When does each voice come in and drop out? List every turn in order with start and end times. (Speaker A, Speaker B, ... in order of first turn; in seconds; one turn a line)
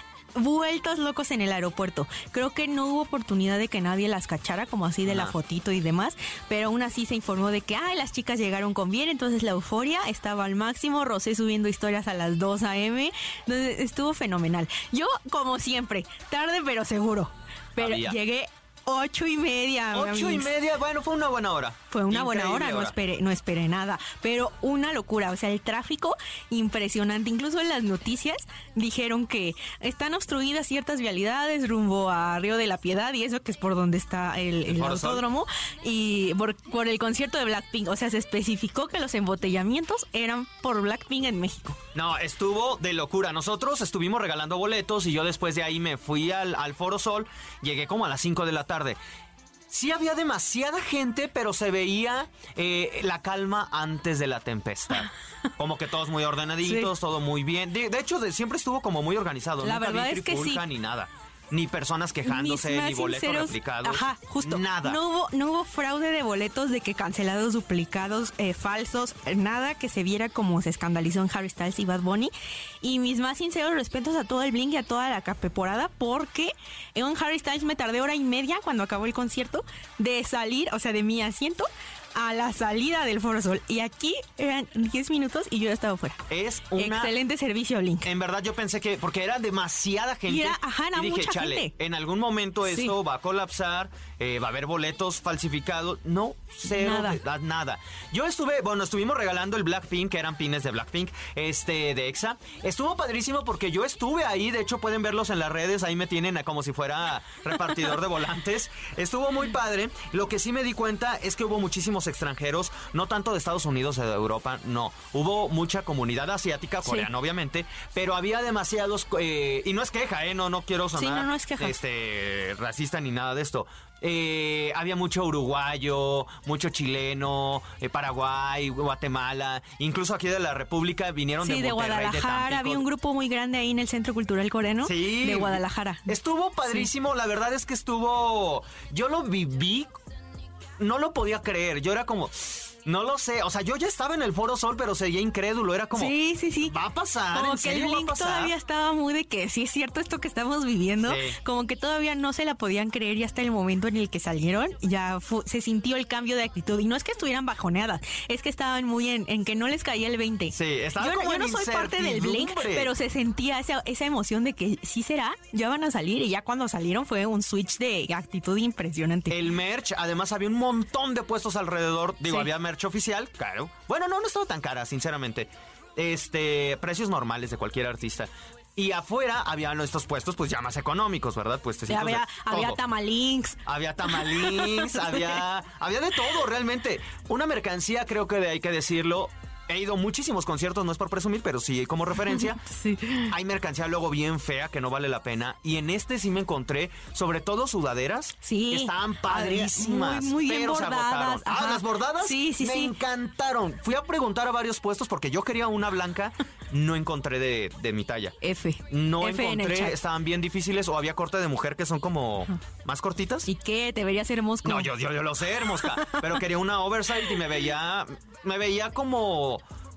Speaker A: 0.3-20.5
Speaker B: 5.0-5.3
Speaker B: 17.8-18.2
Speaker B: 19.9-22.9
Speaker A: 21.9-41.8
Speaker B: 34.7-35.2
Speaker B: 41.9-49.0
Speaker B: 49.7-65.0
Speaker A: 56.6-56.9
Speaker A: 59.6-60.6
Speaker A: 62.2-86.2
Speaker B: 86.3-87.1
Speaker A: 86.8-88.1
Speaker B: 88.0-132.9
Speaker A: 90.3-91.7
Speaker A: 92.7-92.9
Speaker A: 96.7-97.2
Speaker A: 121.0-121.7
Speaker A: 131.4-136.1
Speaker B: 134.8-140.0
Speaker B: 140.8-148.5
Speaker A: 145.9-146.8
Speaker A: 147.3-169.4
Speaker B: 151.0-151.4
Speaker B: 160.5-162.9
Speaker B: 169.3-182.8
Speaker A: 181.9-185.4
Speaker B: 183.7-192.6
Speaker A: 192.6-193.3
Speaker B: 193.2-208.4
Speaker A: 198.4-202.9
Speaker A: 208.4-209.9
Speaker B: 208.9-213.5
Speaker A: 213.5-214.9
Speaker B: 214.6-219.6